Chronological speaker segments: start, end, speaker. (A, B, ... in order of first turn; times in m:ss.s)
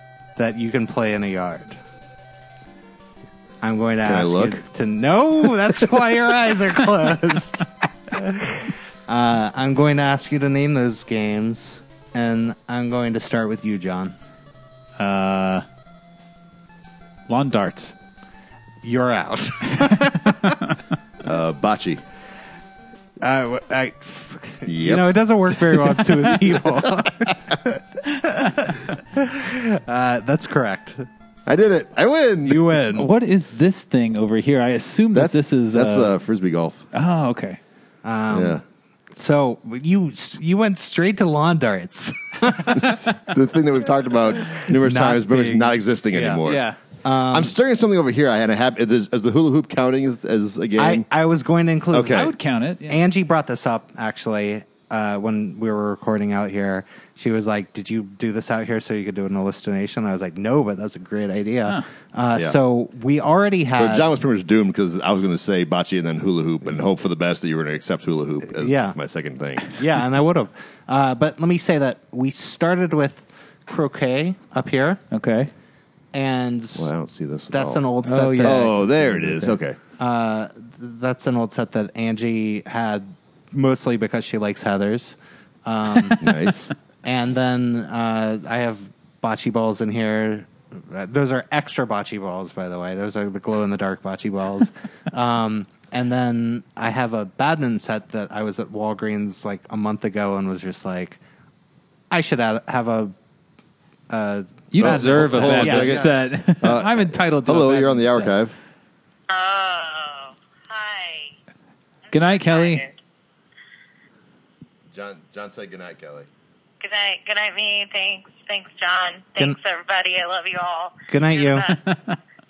0:00.4-0:01.8 A
0:03.6-0:14.2 A
0:04.0-0:04.6 B
0:15.0-0:15.6 C
0:17.3-0:17.9 C
0:18.8-0:20.7 A
0:21.2-0:22.0 B
0:23.2-0:31.1 A
0:24.6-0:25.1 B
0:25.7-0:26.9 B
0:31.5-0:32.8 B
0:32.4-0:33.1 A
0:32.9-0:36.2 C
0:35.1-0:36.9 B
0:36.9-0:37.6 C
0:38.0-0:38.6 A
0:38.3-0:38.6 B
0:39.1-0:43.2 A
0:42.7-0:46.6 B
0:44.5-0:46.4 A
0:46.4-0:46.8 C
0:47.0-0:47.5 A
0:47.3-0:51.0 B
0:50.8-0:52.3 A
0:51.9-0:52.3 B
0:52.0-0:53.0 C
0:52.9-1:04.1 A
1:03.8-1:09.8 B
1:08.5-1:09.0 A
1:09.7-1:15.0 A
1:15.1-1:15.5 C
1:16.1-1:16.9 A
1:16.8-1:17.8 B
1:17.5-1:26.2 A
1:18.0-1:18.7 C
1:18.4-1:19.8 B
1:26.2-1:26.7 B
1:27.0-1:41.2 A
1:42.1-1:43.1 A
1:44.1-1:46.2 A
1:44.7-1:48.4 C
1:44.8-1:48.5 B
1:49.3-1:51.4 D
1:52.1-1:53.0 D
1:52.1-1:52.8 C
1:54.9-1:56.3 B
1:56.8-2:01.9 D
2:01.1-2:01.7 A
2:01.7-2:02.2 C